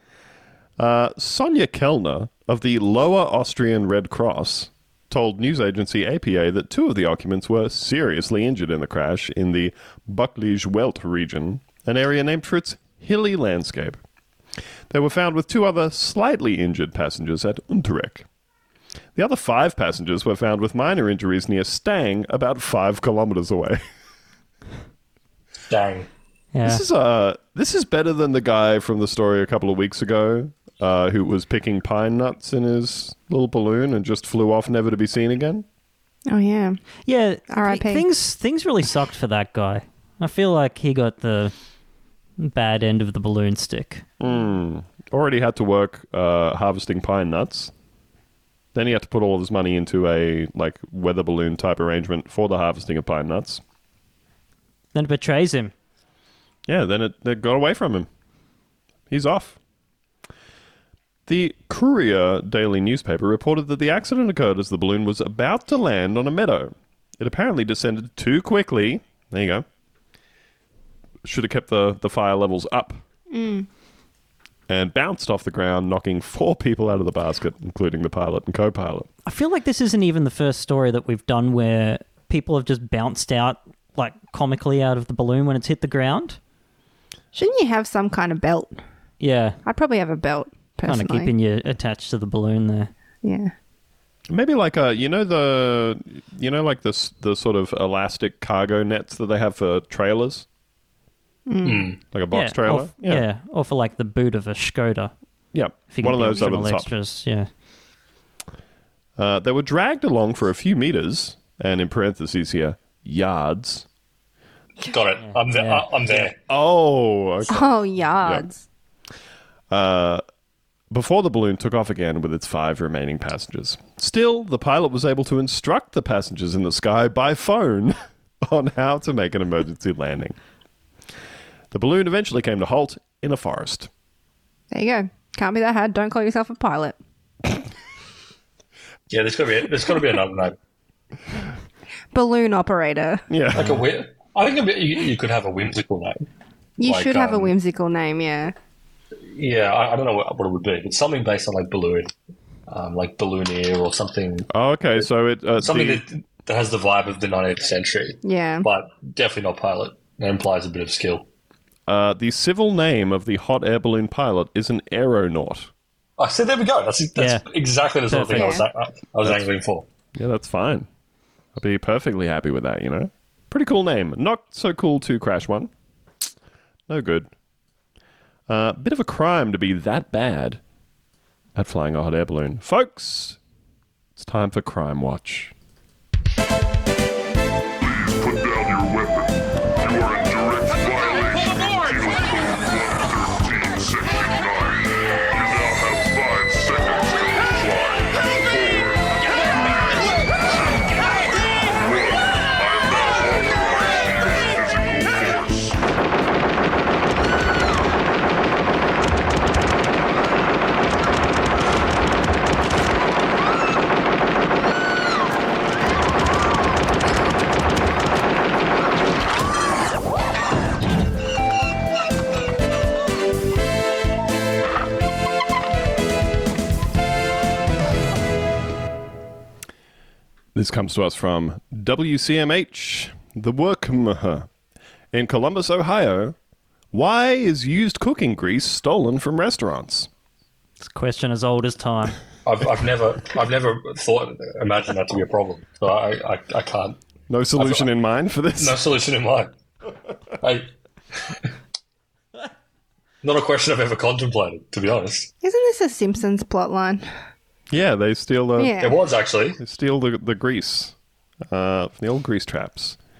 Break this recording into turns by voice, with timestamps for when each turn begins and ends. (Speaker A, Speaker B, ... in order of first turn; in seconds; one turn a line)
Speaker A: 0.8-14.0
Speaker A: 14.9-18.2
Speaker A: 19.1-23.8
Speaker B: 25.7-26.1
Speaker C: 26.5-26.8
Speaker A: 26.6-35.6
Speaker D: 36.3-36.8
Speaker C: 37.0-41.5
Speaker D: 37.5-38.0
Speaker C: 42.4-44.0
Speaker A: 44.2-47.7
Speaker A: 48.7-53.6
Speaker C: 54.9-55.7
Speaker A: 56.7-58.1
Speaker A: 59.1-59.6
Speaker A: 61.3-69.6
Speaker A: 71.2-73.0
Speaker D: 73.3-73.7
Speaker A: 74.7-79.1
Speaker C: 79.2-86.4
Speaker D: 87.3-88.8
Speaker C: 89.2-89.6
Speaker D: 89.6-91.3
Speaker C: 90.8-92.9
Speaker D: 93.2-93.5
Speaker A: 94.3-100.5
Speaker D: 101.5-101.9
Speaker B: 101.6-102.0
Speaker A: 102.1-103.2
Speaker C: 102.3-105.1
Speaker A: 105.5-106.9
Speaker C: 105.9-107.5
Speaker A: 109.2-113.8
Speaker B: 114.8-116.3
Speaker C: 115.2-115.9
Speaker A: 116.2-118.5
Speaker D: 117.5-118.6
Speaker A: 119.7-120.2
Speaker A: 120.9-130.3
Speaker A: 131.7-133.9
Speaker D: 134.7-137.0
Speaker B: 139.1-140.6
Speaker D: 142.1-143.2
Speaker A: 143.3-143.8
Speaker B: 143.5-146.2
Speaker D: 146.8-148.5
Speaker B: 146.8-147.5
Speaker B: 149.2-152.1
Speaker B: 152.7-154.5
Speaker A: 154.5-156.0
Speaker B: 155.6-161.2
Speaker D: 158.2-158.7
Speaker A: 161.9-165.7
Speaker B: 166.2-169.8
Speaker C: 167.2-167.4
Speaker C: 168.1-168.6
Speaker D: 168.3-168.7
Speaker A: 170.1-170.9
Speaker A: 171.6-175.7
Speaker A: 176.9-177.3
Speaker A: 178.5-180.6
Speaker A: 181.5-183.4
Speaker A: 184.2-185.5
Speaker E: 187.8-199.1
Speaker E: 199.6-205.7
Speaker A: 230.5-234.5
Speaker A: 235.1-236.3
Speaker A: 236.9-240.1
Speaker C: 240.8-242.2
Speaker B: 242.4-247.0
Speaker A: 247.3-248.8
Speaker B: 247.6-247.9
Speaker B: 248.6-249.5
Speaker B: 250.4-251.5
Speaker B: 253.2-255.3
Speaker D: 255.4-257.1
Speaker A: 257.7-258.8
Speaker D: 258.6-259.0
Speaker B: 258.8-259.6
Speaker A: 259.6-260.9
Speaker A: 261.5-263.0